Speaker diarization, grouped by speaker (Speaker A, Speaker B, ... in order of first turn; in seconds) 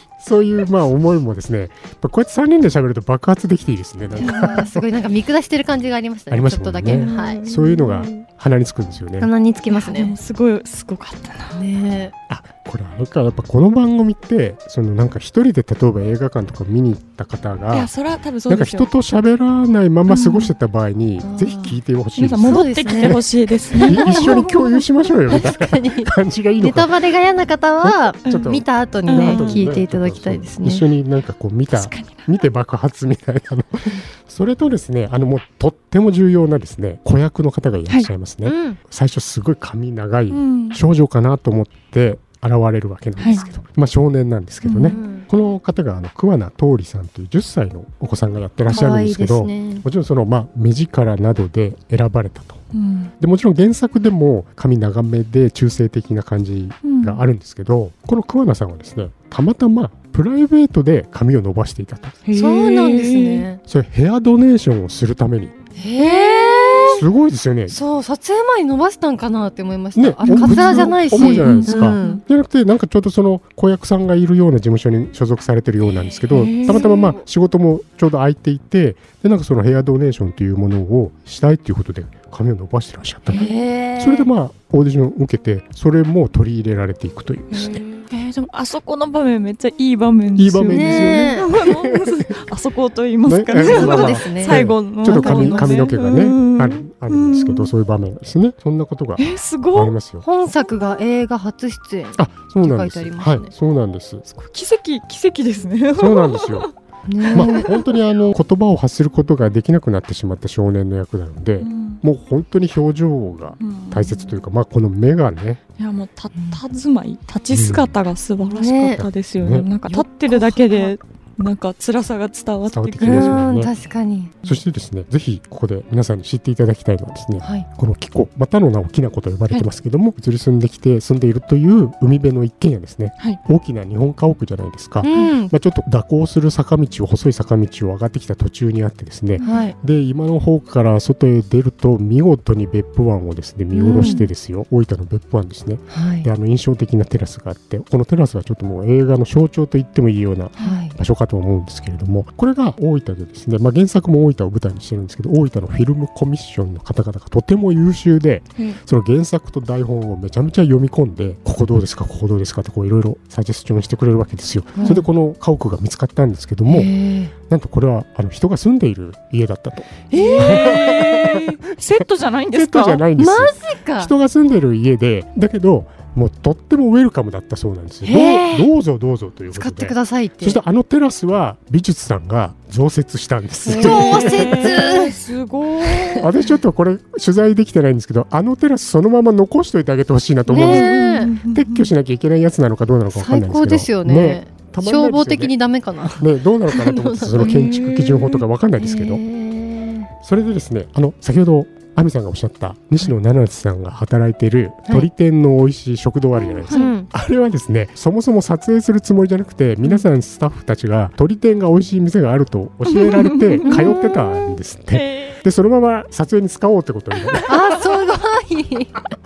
Speaker A: 0.2-4.8, 6.3-9.3, 12.3-17.9, 18.5-23.2, 23.8-26.9, 27.8-52.6, 53.2-62.2, 63.6-65.6, 66.8-67.8, 69.9-87.8, 90.3-92.4, 93.2-100.2, 102.2-104.2, 106.0-106.7, 107.3-115.6, 117.5-117.9, 119.0-119.7, 122.7-123.7, 124.4-171.6, 172.5-184.9, 186.2-190.9, 191.5-195.5, 196.1-199.2, 200.2-217.8
Speaker B: 4.2-7.4, 9.2-10.1, 11.5-12.1, 21.2-21.8, 22.4-23.2, 23.7-24.4, 25.3-30.9, 38.4-38.8, 44.8-45.3, 48.7-49.8, 62.3-63.6, 65.8-67.0, 67.7-72.2, 76.5-77.2, 83.3-84.3, 90.7-91.5, 93.6-95.8, 100.2-103.5, 107.1-107.7, 118.5-119.0, 119.9-120.9, 123.0-124.6, 127.4-127.7, 135.0-135.5, 139.4-139.8, 143.7-144.2, 145.9-146.3, 150.6-150.9, 164.8-165.1, 166.7-167.3, 170.1-170.9, 173.2-174.1, 178.0-178.7, 179.5-180.6, 183.7-185.2, 185.8-186.3, 190.5-191.3, 193.1-198.1, 198.8-200.1, 206.7-207.1, 213.7-213.9, 217.4-219.1
Speaker C: 4.2-4.7, 6.8-8.2, 9.7-11.6, 17.7-18.9, 20.1-20.5, 22.1-24.8, 29.1-29.6, 31.7-32.3, 40.3-40.8, 43.2-43.5, 44.6-45.0, 52.7-53.1, 56.8-57.2, 62.2-63.5, 66.2-66.8, 70.2-72.2, 76.3-76.9, 87.5-97.7, 99.2-99.9, 104.3-107.8, 111.6-112.0, 113.6-114.4, 115.8-123.4, 139.4-139.7, 144.0-144.2, 170.1-173.0, 183.7-186.4, 190.5-191.9, 197.3-198.2, 206.6-206.9, 212.9-215.4